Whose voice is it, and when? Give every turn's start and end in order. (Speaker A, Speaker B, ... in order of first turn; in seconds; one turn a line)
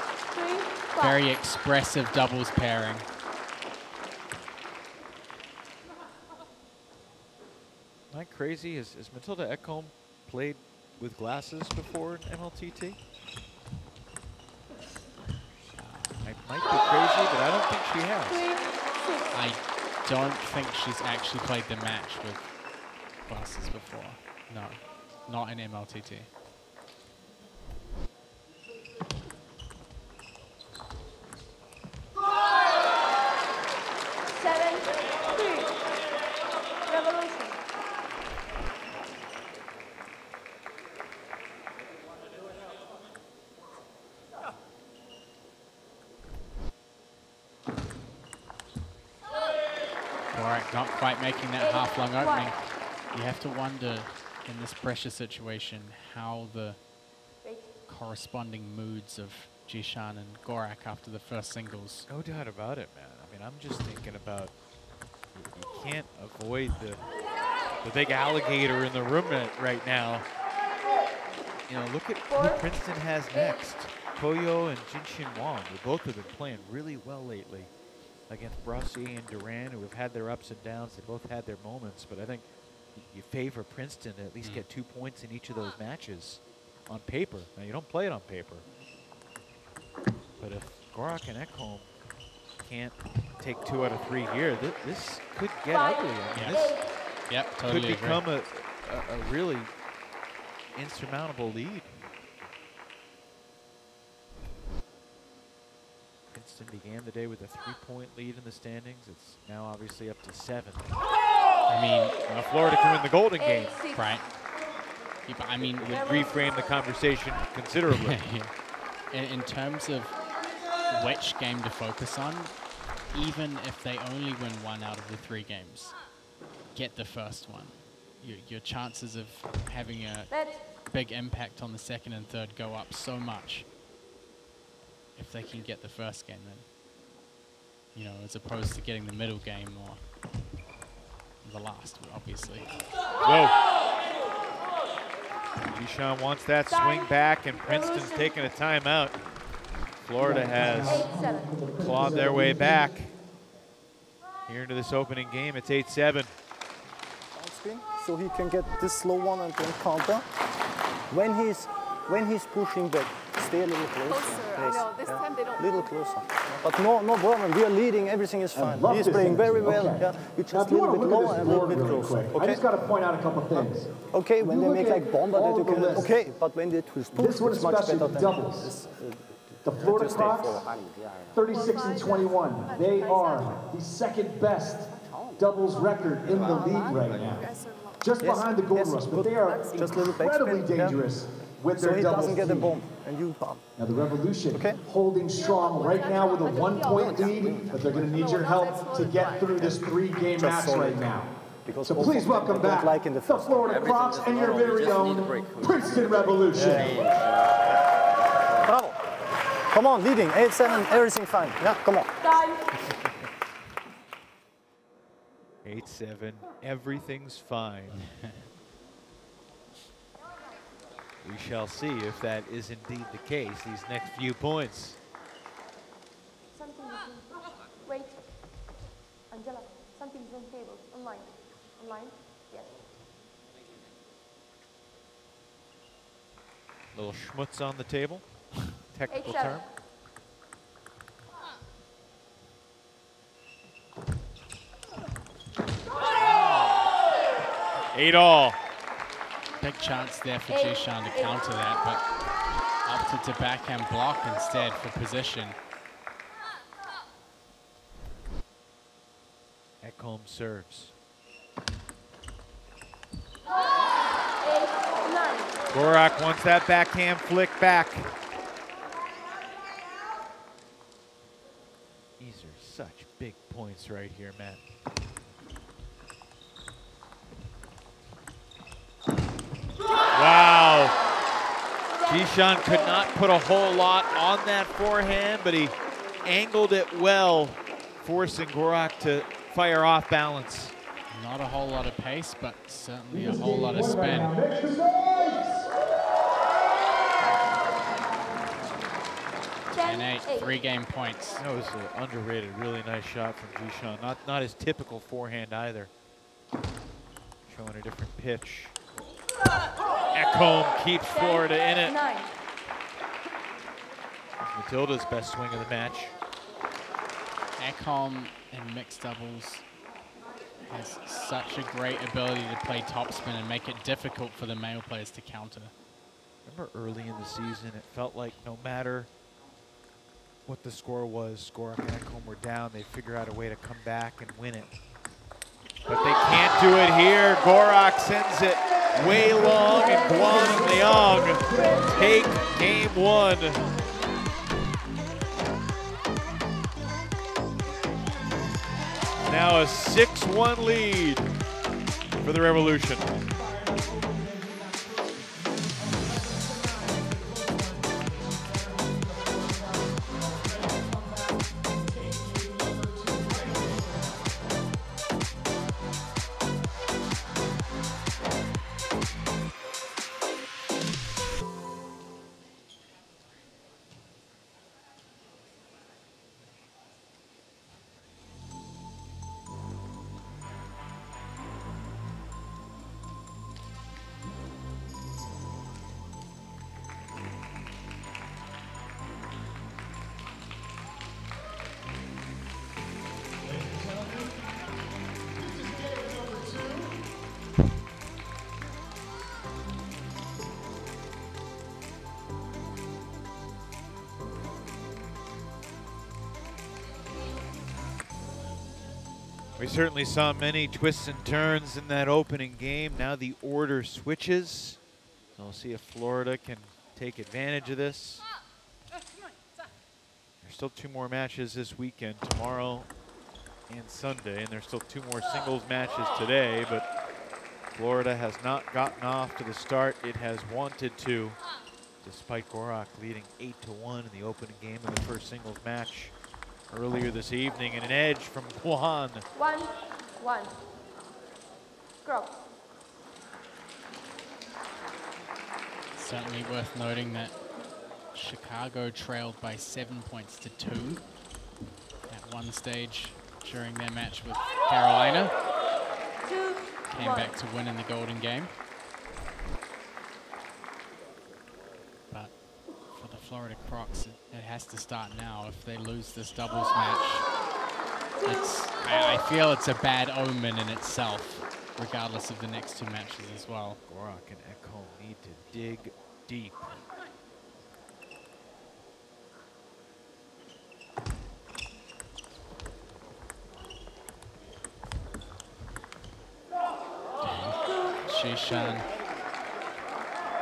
Speaker A: 0.3-1.2
Speaker B: 1.0-3.1
Speaker C: 8.1-13.0
Speaker B: 15.8-16.3
Speaker C: 16.2-18.4
Speaker A: 18.3-19.3
Speaker B: 19.3-26.3
Speaker A: 34.3-35.8
Speaker A: 36.9-37.6
Speaker B: 50.3-56.8
Speaker A: 51.6-52.6
Speaker A: 57.4-57.7
Speaker B: 57.9-62.1
Speaker C: 62.1-64.6
Speaker C: 65.3-67.0
Speaker C: 67.8-70.3
Speaker C: 71.7-77.7
Speaker A: 72.3-72.7
Speaker A: 73.3-73.6
Speaker C: 78.3-88.7
Speaker C: 90.4-92.0
Speaker C: 92.5-96.9
Speaker A: 95.7-96.9
Speaker B: 96.3-98.2
Speaker C: 97.6-99.7
Speaker C: 100.7-102.0
Speaker C: 106.3-110.9
Speaker B: 111.7-112.2
Speaker C: 112.3-113.8
Speaker A: 113.4-114.0
Speaker B: 113.9-114.3
Speaker B: 115.3-116.0
Speaker C: 115.6-118.3
Speaker A: 116.0-116.4
Speaker B: 117.9-120.3
Speaker B: 120.8-126.0
Speaker B: 126.7-133.7
Speaker A: 130.3-130.7
Speaker B: 135.2-136.7
Speaker B: 137.9-140.0
Speaker B: 141.4-142.8
Speaker C: 143.2-143.6
Speaker C: 145.7-149.2
Speaker A: 146.7-148.3
Speaker C: 150.0-151.3
Speaker D: 150.2-152.9
Speaker A: 150.8-151.6
Speaker C: 151.8-153.1
Speaker C: 154.5-156.3
Speaker E: 157.3-160.3
Speaker E: 161.1-172.7
Speaker A: 164.3-165.4
Speaker D: 168.6-173.9
Speaker E: 173.5-180.5
Speaker D: 174.4-176.3
Speaker D: 177.1-178.7
Speaker D: 179.6-180.6
Speaker D: 181.3-192.8
Speaker E: 188.2-191.1
Speaker E: 191.8-193.7
Speaker D: 193.8-201.3
Speaker E: 194.5-194.8
Speaker A: 196.7-197.1
Speaker E: 196.8-198.1
Speaker E: 199.5-204.2
Speaker D: 201.8-206.9
Speaker E: 204.8-205.1
Speaker E: 206.4-207.1
Speaker E: 208.6-209.0
Speaker E: 209.7-212.1
Speaker A: 212.2-212.7
Speaker C: 215.6-218.2
Speaker C: 221.2-225.0
Speaker A: 226.5-228.6
Speaker A: 229.3-232.8
Speaker C: 236.9-239.7
Speaker A: 239.1-239.6
Speaker C: 246.4-246.8
Speaker C: 247.9-248.6
Speaker B: 249.6-252.1
Speaker A: 250.5-251.4
Speaker B: 252.8-255.6
Speaker C: 259.8-260.9
Speaker A: 264.4-265.6
Speaker C: 265.7-268.1
Speaker C: 272.2-274.6
Speaker C: 280.1-281.0
Speaker A: 281.9-283.0
Speaker C: 282.1-290.8
Speaker B: 291.1-294.4
Speaker D: 293.1-295.7
Speaker A: 299.7-300.6
Speaker B: 299.7-301.4
Speaker C: 301.4-305.9
Speaker C: 307.5-308.8
Speaker C: 310.1-312.0
Speaker A: 311.1-312.3
Speaker C: 314.4-316.1
Speaker B: 317.6-319.7
Speaker B: 320.6-325.7
Speaker C: 326.5-329.1
Speaker C: 330.5-334.7
Speaker C: 335.9-343.6
Speaker D: 338.9-342.5
Speaker C: 349.3-351.3
Speaker C: 352.2-353.1
Speaker D: 353.2-364.4
Speaker D: 393.4-397.0
Speaker C: 409.6-414.8
Speaker C: 415.4-418.3
Speaker C: 420.4-422.9
Speaker C: 423.7-426.9
Speaker C: 427.7-431.4
Speaker C: 432.0-436.1
Speaker C: 436.7-439.2
Speaker A: 439.4-440.6
Speaker A: 442.1-442.4
Speaker B: 445.9-447.4
Speaker B: 448.1-451.1
Speaker B: 452.1-455.3
Speaker A: 456.2-457.4
Speaker B: 456.9-458.5
Speaker B: 462.1-467.3
Speaker A: 468.2-469.1
Speaker B: 468.2-473.8
Speaker C: 473.9-476.8
Speaker B: 487.2-488.9
Speaker A: 487.6-488.8